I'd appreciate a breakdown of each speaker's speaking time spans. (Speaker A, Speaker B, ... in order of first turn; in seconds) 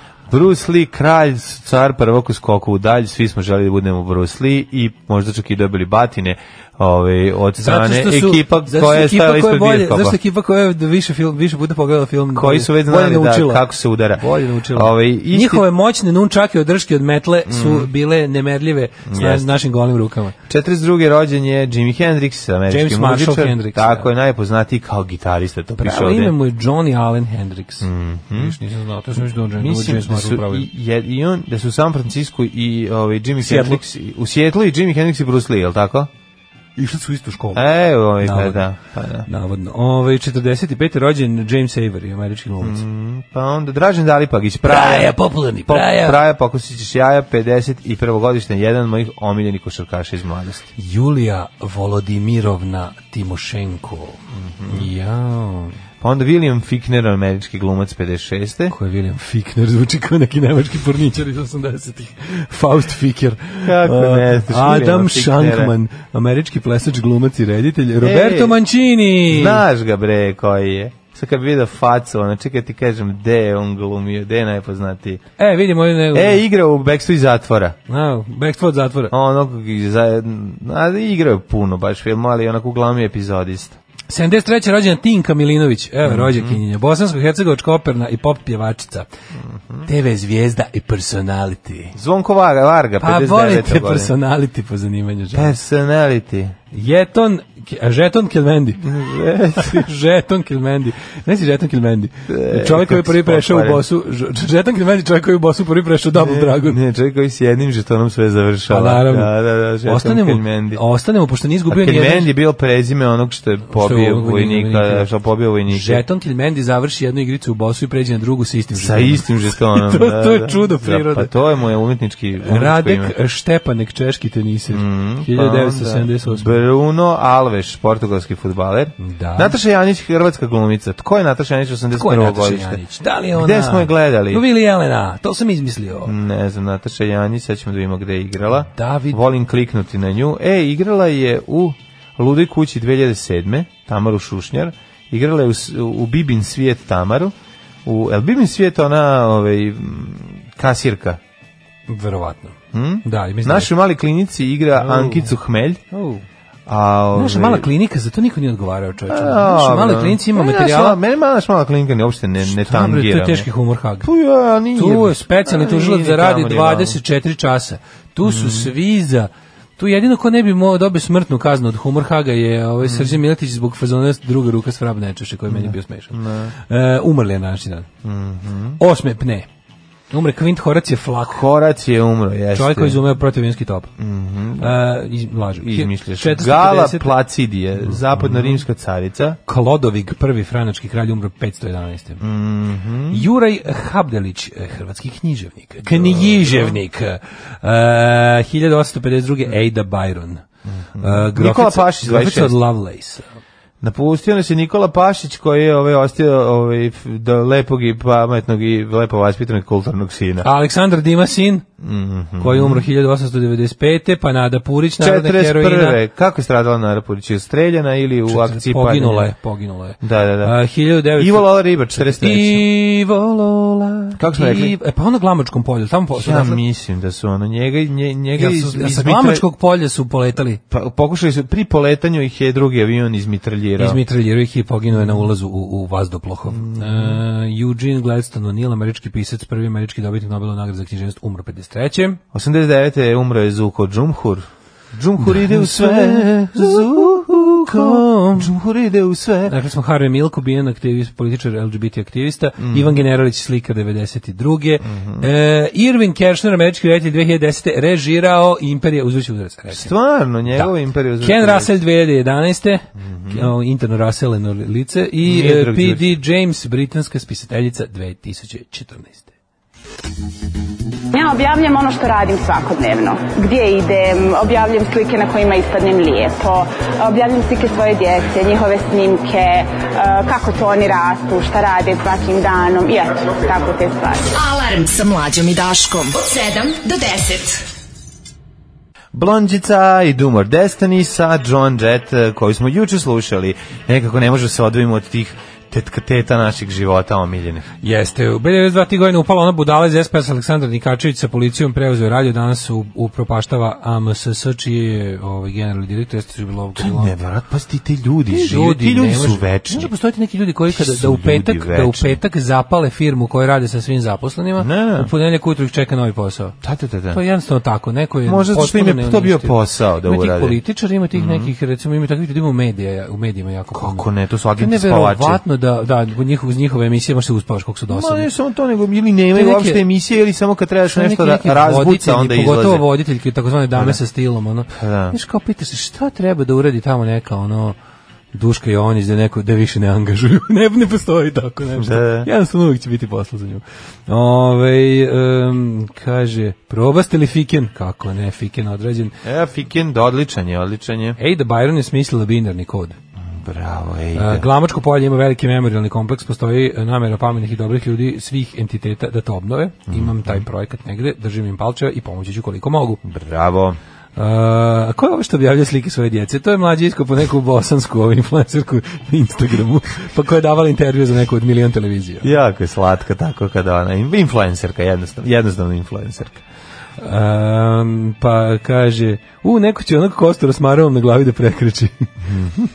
Speaker A: 0.3-10.2, 12.3-14.2, 14.7-15.7, 17.5-17.9, 19.1-19.5, 20.5-26.3, 27.8-28.6, 29.6-36.1, 37.5-39.3, 42.6-50.7, 54.3-54.9, 56.0-58.8, 63.6-65.7, 68.0-68.6, 69.3-75.2, 76.1-77.8, 79.1-83.8, 86.0-86.6, 91.9-94.1, 95.3-96.5, 98.8-99.8, 102.3-103.8, 106.1-110.8, 111.7-116.0, 118.7-123.1, 124.7-132.8, 133.3-134.4, 136.0-147.3, 147.8-151.2, 152.7-155.8, 156.7-157.7, 159.1-163.4, 164.0-167.0, 168.2-168.7, 172.8-173.2, 175.5-176.5, 178.0-178.8, 181.3-183.0, 184.0-184.8, 185.6-189.4, 192.2-193.3, 195.8-196.8, 200.7-202.6, 203.8-210.5, 211.8-212.8, 215.0-219.3, 220.0-220.5, 221.1-222.6, 224.2-224.7, 226.2-229.4, 230.7-234.0, 236.5-237.2, 242.3-249.5, 252.6-252.9, 254.8-255.3, 259.7-261.7, 263.0-263.5, 265.2-266.1, 289.1-297.6, 306.8-309.9, 310.7-312.2, 314.6-315.1, 316.6-317.2, 318.2-320.6, 321.1-321.5, 323.7-325.4, 327.9-332.9, 333.7-334.0, 334.7-335.1, 341.8-342.3, 349.2-351.2, 353.2-354.4, 359.9-360.4, 363.0-363.8, 372.2-376.4, 382.3-382.5
Speaker B: 7.6-20.3, 22.7-24.1, 25.8-30.7, 33.4-33.8, 36.8-37.6, 38.2-38.6, 39.2-42.8, 44.6-46.2, 50.8-55.8, 58.7-69.6, 75.4-76.4, 77.9-79.1, 84.1-89.1, 89.8-91.9, 93.0-95.5, 96.7-99.0, 99.5-106.8, 108.7-109.3, 109.8-112.3, 113.7-115.1, 115.7-121.3, 122.4-126.6, 129.0-129.6, 131.9-136.1, 138.7-139.2, 151.9-153.7, 154.8-155.3, 155.9-156.2, 157.1-161.0, 162.4-164.1, 164.7-177.9, 178.8-179.5, 180.1-181.4, 182.5-183.9, 184.6-187.1, 187.9-188.6, 189.5-192.2, 193.1-200.4, 201.0-203.3, 210.4-211.6, 212.4-216.0, 218.3-226.6, 228.3-230.6, 233.8-242.2, 245.2-248.5, 249.5-259.9, 260.5-269.3, 297.8-307.1, 308.3-316.6, 317.1-324.1, 324.6-328.3, 329.3-329.8, 330.9-337.8, 338.3-349.2, 351.2-353.0, 354.1-363.0, 364.2-372.3, 377.0-382.1
Speaker C: 271.1-284.2
Speaker D: 284.3-287.6